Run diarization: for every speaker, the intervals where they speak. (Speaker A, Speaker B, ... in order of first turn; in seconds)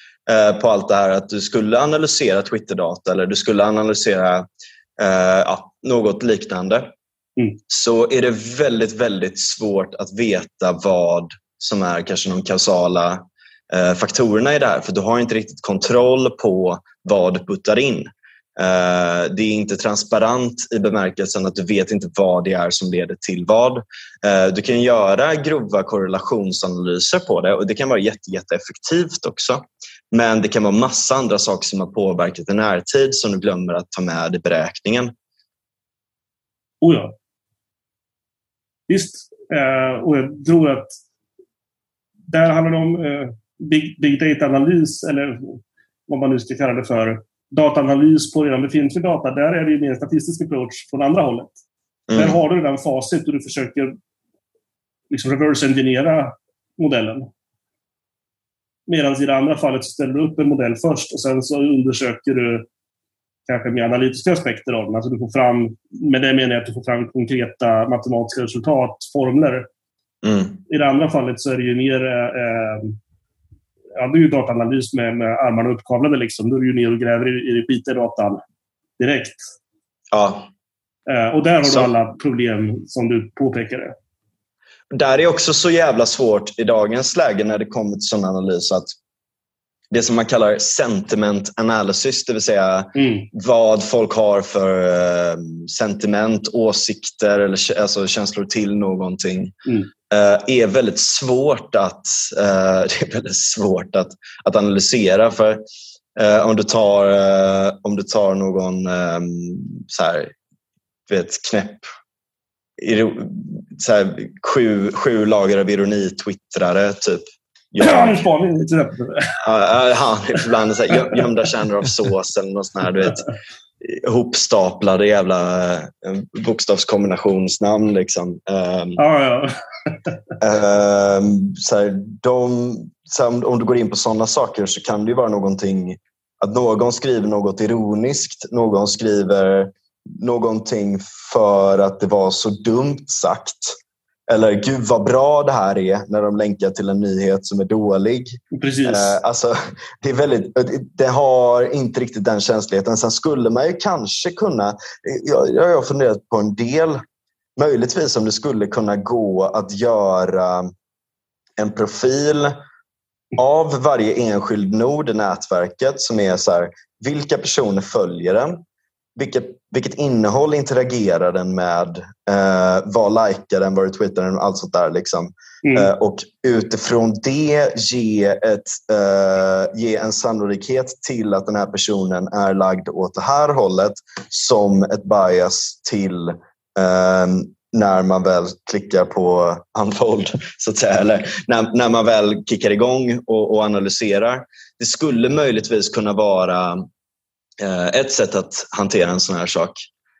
Speaker A: 0.3-6.9, 7.7-35.1, 52.1-52.4, 70.2-70.6, 80.1-80.5, 84.9-88.9, 89.9-99.5, 100.1-105.6, 106.2-110.3, 111.1-111.8, 112.8-118.2, 119.4-123.2, 123.8-129.0, 130.4-143.8, 144.3-157.0, 157.6-160.7, 161.6-162.6, 163.3-168.6, 169.2-196.9, 197.6-199.8
Speaker B: 36.8-37.1, 38.9-41.0, 42.3-51.5, 52.1-53.9, 55.1-57.3, 58.9-62.7, 63.5-69.7, 70.7-73.0, 74.0-78.4, 79.0-79.4, 81.1-83.9, 92.9-93.3, 117.8-119.4, 129.0-130.1, 148.5-149.2, 175.6-175.9